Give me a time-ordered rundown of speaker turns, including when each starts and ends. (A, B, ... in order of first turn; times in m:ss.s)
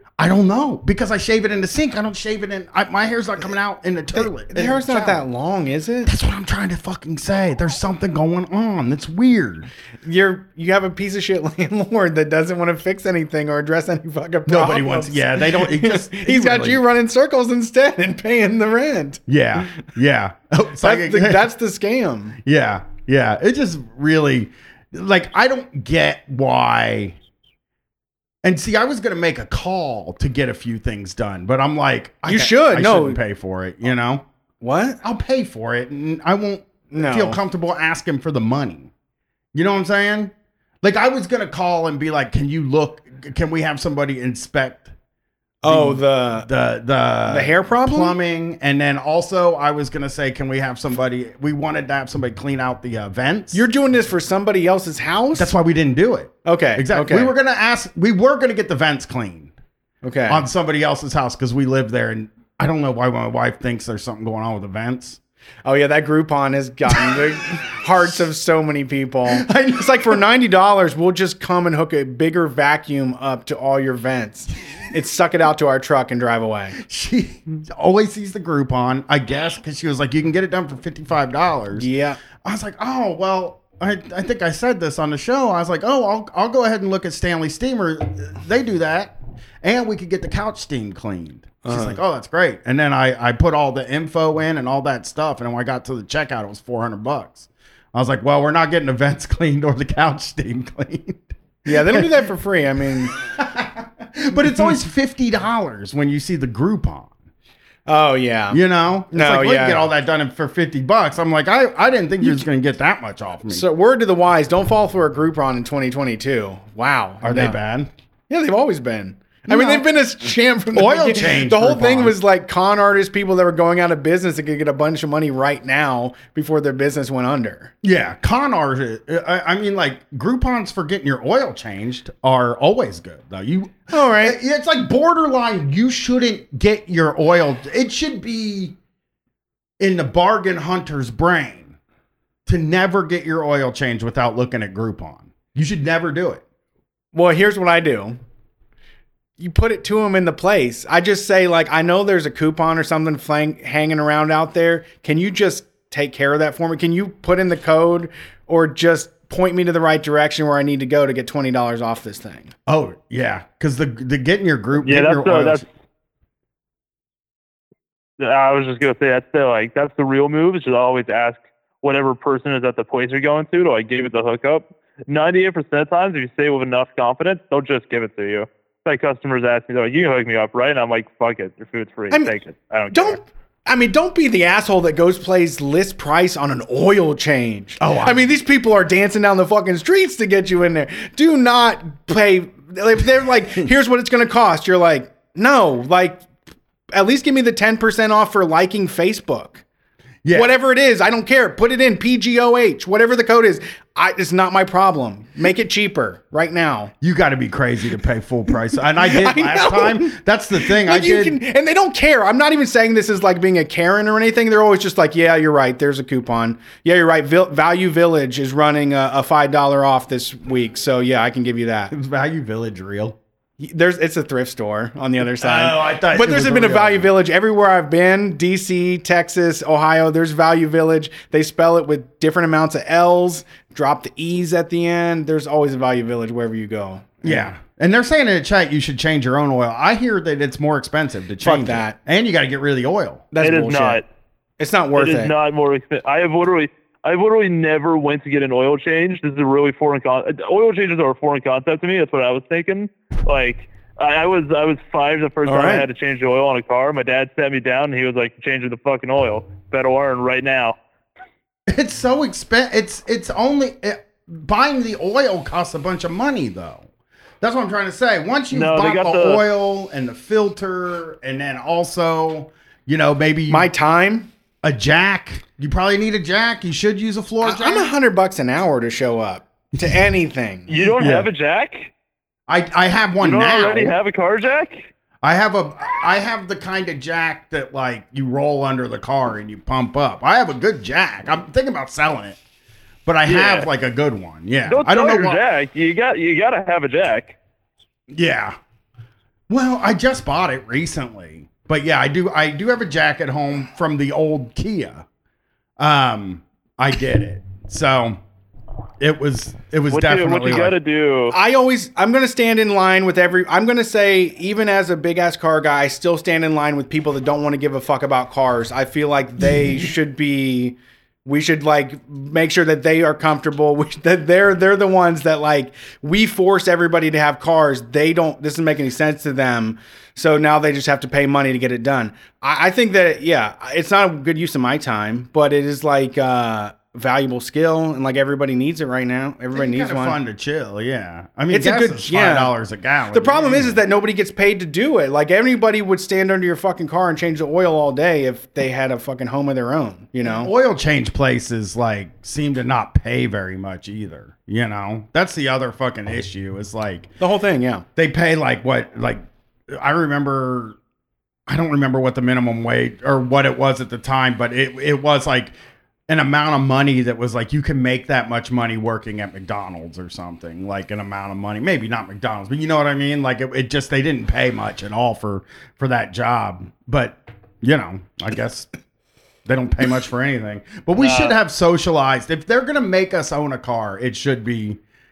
0:00.2-0:05.2 A
0:04.1-0:06.1 B
0:06.0-0:09.7 A
0:10.0-0:19.2 B
0:14.5-0:16.8 A
0:19.3-0:21.5 A
0:20.8-0:22.4 B
0:22.4-0:27.2 A
0:28.4-0:34.2 A
0:32.2-0:33.2 B
0:34.6-0:35.0 B
0:35.0-0:38.9 A
0:36.9-0:37.4 B
0:39.5-0:44.9 A
0:45.6-0:46.5 B
0:45.6-0:53.6 A
0:47.3-0:48.2 B
0:53.5-0:55.5 B
0:55.3-0:59.5 A
0:56.4-0:57.3 B
1:00.0-1:00.4 B
1:00.3-1:05.2 A
1:05.6-1:16.8 B
1:06.9-1:07.2 A
1:09.3-1:10.2 A
1:16.8-1:21.9 A
1:21.7-1:22.2 B
1:22.4-1:42.2 A
1:31.6-1:32.0 B
1:41.6-1:43.1 B
1:43.0-1:47.1 A
1:47.8-1:49.8 B
1:48.5-1:53.6 A
1:53.5-1:57.6 B
1:57.2-1:57.9 A
1:58.3-2:07.7 B
1:59.5-1:59.8 A
2:00.7-2:02.2 A
2:07.8-2:18.8 A
2:13.9-2:14.4 B
2:19.8-2:21.7 A
2:22.4-2:26.4 A
2:27.1-2:28.2 B
2:29.4-2:42.5 B
2:42.7-2:45.6 A
2:44.8-2:45.7 C
2:48.2-3:03.2 C
3:02.9-3:16.2 B
3:07.8-3:08.4 A
3:16.9-3:19.6 B
3:20.2-3:20.5 A
3:20.3-3:26.9 B
3:27.0-3:31.4 A
3:29.0-3:41.9 B
3:41.9-3:43.2 A
3:43.6-3:57.5 B
3:45.4-3:47.1 A
3:57.2-4:03.3 A
4:01.4-4:02.0 B
4:03.3-4:04.0 B
4:03.4-4:04.0 C
4:04.6-4:05.3 B
4:05.0-4:20.8 C
4:15.4-4:15.9 B
4:21.7-4:26.8 A
4:27.4-4:33.7 A
4:28.5-4:29.4 C
4:33.5-4:34.3 B
4:34.6-4:37.9 A
4:37.4-4:40.7 B
4:40.7-4:41.9 C
4:41.0-4:41.3 A
4:42.5-4:44.0 A
4:43.2-4:44.9 C
4:45.2-4:52.4 A
4:53.0-4:55.4 A
4:53.2-4:53.7 C
4:54.7-4:57.4 C
4:58.1-4:58.6 A
4:59.5-5:05.0 A
5:05.8-5:08.2 A
5:09.0-5:10.8 A
5:09.9-5:11.3 C
5:11.3-5:40.2 B
5:39.5-5:43.8 A
5:41.5-5:42.5 B
5:43.1-5:50.5 B
5:50.2-5:57.1 A
5:57.2-5:57.8 B
5:58.0-6:00.8 A
6:01.5-6:05.5 A
6:06.1-6:18.7 A
6:19.4-6:24.8 A
6:21.0-6:21.4 C